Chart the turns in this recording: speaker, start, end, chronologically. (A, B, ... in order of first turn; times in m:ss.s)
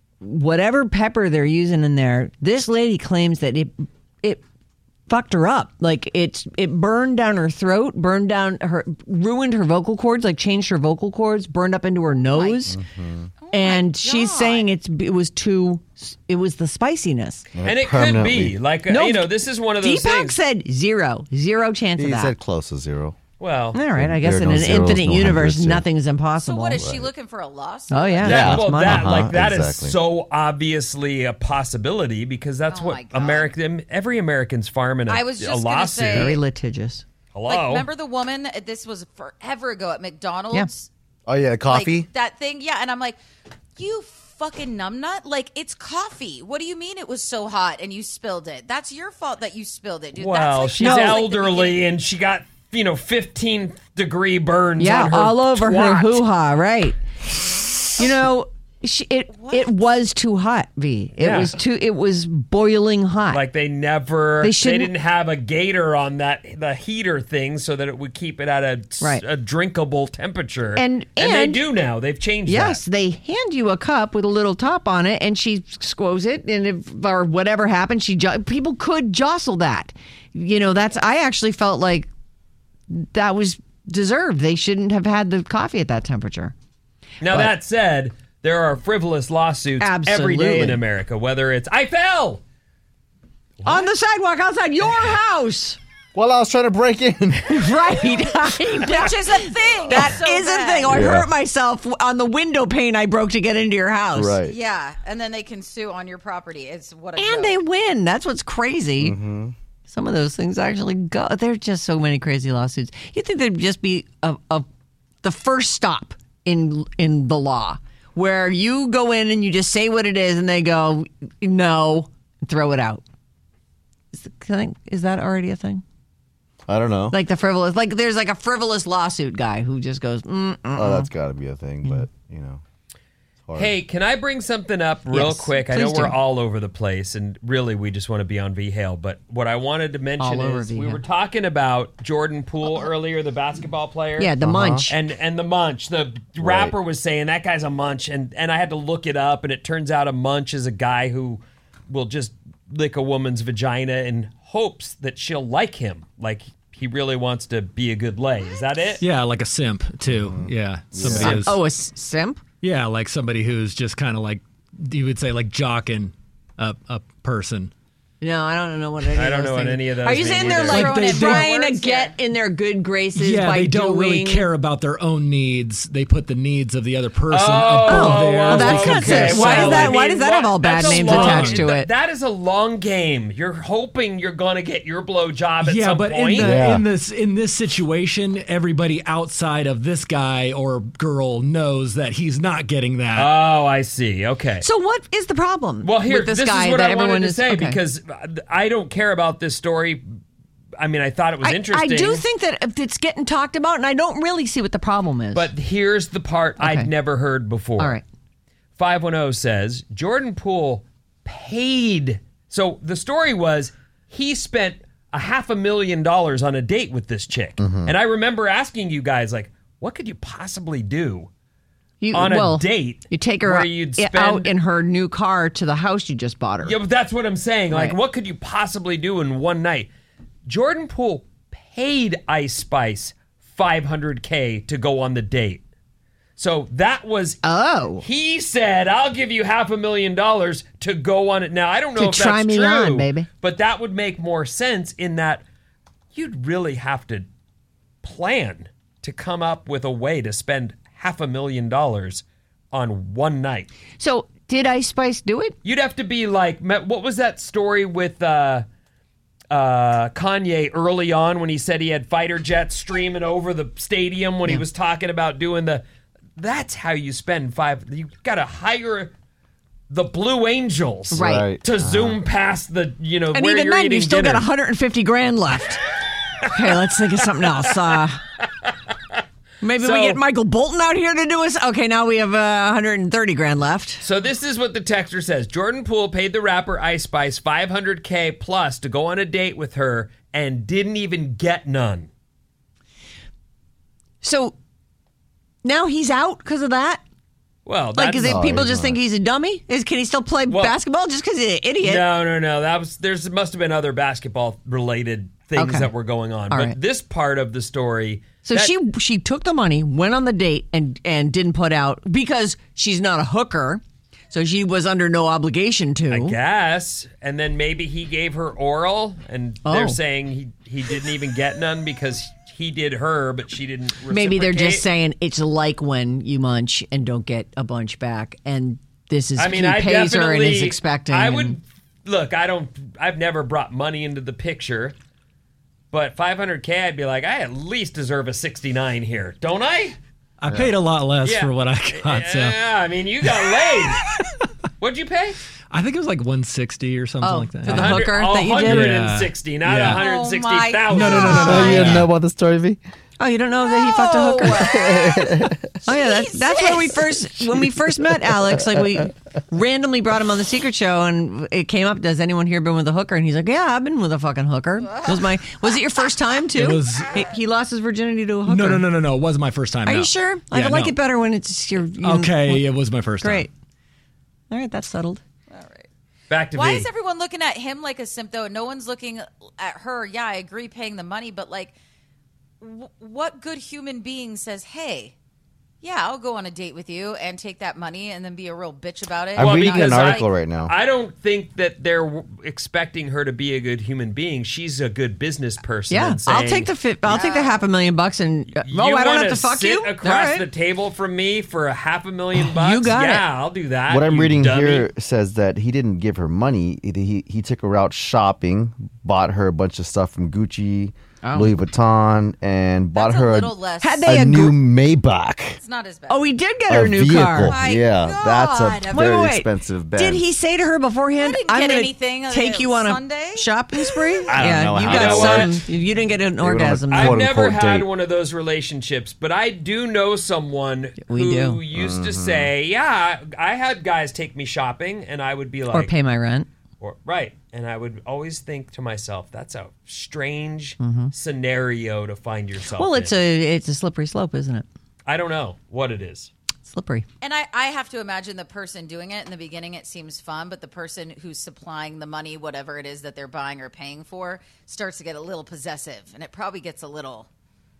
0:00.2-0:04.4 A
0:05.1-0:12.8 A
0:12.3-0:12.7 B
0:12.7-0:13.3 C
0:13.4-0:14.7 B
0:13.5-0:17.4 A
0:17.5-0:18.6 C
0:17.6-0:20.4 D
0:18.9-0:22.3 A
0:22.0-0:23.2 C
0:23.4-0:23.8 D
0:23.7-0:26.8 A
0:23.9-0:25.8 C
0:26.4-0:28.3 B
0:26.8-0:27.1 C
0:27.9-0:29.1 A
0:28.2-0:30.0 C
0:28.2-0:36.4 D
0:32.7-0:33.5 B
0:35.1-0:36.4 B
0:36.0-0:37.0 A
0:37.3-0:37.9 D
0:37.5-0:40.9 B
0:41.3-0:42.1 C
0:41.7-0:43.2 B
0:43.8-0:51.8 B
0:50.2-0:56.2 D
0:50.8-0:51.2 A
0:54.8-0:57.0 A
0:57.7-1:03.4 A
0:59.3-0:59.7 B
1:01.2-1:01.6 D
1:03.3-1:12.8 D
1:04.4-1:04.9 A
1:10.8-1:11.6 A
1:12.5-1:22.1 A
1:22.9-1:26.5 A
1:27.2-1:32.4 D
1:29.8-1:30.8 A
1:33.6-1:33.9 D
1:33.6-1:35.8 A
1:36.1-1:37.8 C
1:37.5-1:44.4 A
1:38.8-1:41.1 B
1:40.9-1:41.3 C
1:44.1-1:44.6 C
1:44.4-1:47.6 B
1:47.2-1:49.2 A
1:49.0-1:49.5 C
1:49.9-1:54.7 A
1:55.2-2:03.0 A
2:04.1-2:05.8 A
2:06.7-2:07.2 C
2:07.1-2:11.1 A
2:10.7-2:12.6 C
2:13.5-2:13.8 C
2:13.5-2:24.3 D
2:15.1-2:16.2 A
2:20.2-2:21.0 A
2:24.2-2:25.0 A
2:24.4-2:24.9 C
2:24.9-2:39.0 D
2:26.4-2:26.7 C
2:39.0-2:41.6 E
2:40.1-2:41.4 C
2:41.0-2:42.4 A
2:42.6-2:47.7 E
2:48.2-2:54.4 A
2:49.1-2:51.0 D
2:50.1-2:52.1 B
2:50.7-2:51.5 E
2:53.1-3:00.0 E
2:54.0-2:54.4 D
2:57.3-3:06.6 D
2:57.8-3:01.9 A
3:00.9-3:01.7 E
3:05.6-3:13.3 E
3:06.4-3:06.8 C
3:13.1-3:14.6 D
3:14.6-3:17.8 A
3:15.8-3:20.1 D
3:20.8-3:22.2 D
3:21.4-3:25.5 A
3:25.3-3:28.0 D
3:26.6-3:26.9 A
3:27.8-3:28.0 A
3:28.8-3:41.3 D
3:37.6-3:37.9 C
3:42.0-3:46.8 A
3:42.1-3:44.5 D
3:46.6-3:49.9 D
3:47.7-3:48.0 A
3:50.4-3:55.6 D
3:56.4-3:57.4 D
3:57.4-3:58.0 A
3:58.0-4:05.4 D
4:02.0-4:03.3 A
4:06.1-4:07.3 D
4:08.0-4:13.7 D
4:14.0-4:15.6 A
4:15.6-4:18.6 D
4:19.5-4:25.8 D
4:26.4-4:29.1 D
4:29.9-4:34.5 D
4:31.1-4:31.5 A
4:31.1-4:32.2 C
4:33.3-4:35.8 A
4:36.4-4:38.2 A
4:39.6-4:44.0 A
4:39.8-4:40.2 D
4:44.0-4:52.1 D
4:54.2-4:54.6 A
4:55.6-4:57.0 A
4:57.6-4:58.4 D
4:57.9-5:02.1 A
4:58.2-4:59.0 C
5:00.5-5:00.8 D
5:01.8-5:08.7 D
5:05.5-5:05.9 A
5:06.5-5:06.8 A
5:08.4-5:16.4 A
5:16.1-5:24.8 D
5:19.6-5:20.0 A
5:24.1-5:31.6 A
5:29.4-5:35.0 D
5:35.9-5:40.0 D
5:40.4-5:42.6 E
5:40.5-5:40.7 C
5:41.2-5:44.0 D
5:44.8-5:45.4 D
5:45.7-5:50.0 E
5:47.2-5:48.9 A
5:47.7-5:52.0 D
5:49.8-5:52.0 B
5:50.9-5:52.1 E
5:51.4-5:52.8 C
5:53.2-5:54.8 A
5:53.6-5:55.3 B
5:54.5-5:55.7 C
5:55.9-6:08.9 A
5:55.9-5:57.2 B
5:57.6-5:59.0 C
6:04.9-6:05.5 B
6:06.6-6:07.2 E
6:08.4-6:11.0 E
6:09.9-6:13.5 A
6:12.0-6:13.5 E
6:14.5-6:15.2 A
6:15.5-6:15.9 B
6:16.3-6:16.9 D
6:16.5-6:21.7 B
6:22.6-6:25.1 B
6:25.8-6:30.3 B
6:29.4-6:30.7 C
6:29.4-6:37.2 D
6:35.9-6:40.4 A
6:37.0-6:37.6 B
6:38.5-6:44.9 D
6:42.4-6:43.2 A
6:43.9-6:55.6 C
6:51.2-6:51.5 A
6:52.9-6:54.1 B
6:53.8-6:54.6 A
6:55.6-6:56.2 B
6:56.1-6:57.6 A
6:56.7-7:00.2 C
6:57.4-6:59.2 B
6:58.9-7:07.2 A
7:01.2-7:03.4 B
7:04.3-7:05.6 C
7:04.3-7:05.6 D
7:06.4-7:07.9 C
7:06.9-7:15.9 D
7:11.1-7:11.6 A
7:11.7-7:12.5 C
7:15.7-7:16.5 A
7:16.8-7:23.1 D
7:20.8-7:21.1 A
7:22.8-7:24.6 A
7:25.1-7:26.3 D
7:26.6-7:27.0 A
7:27.2-7:37.3 B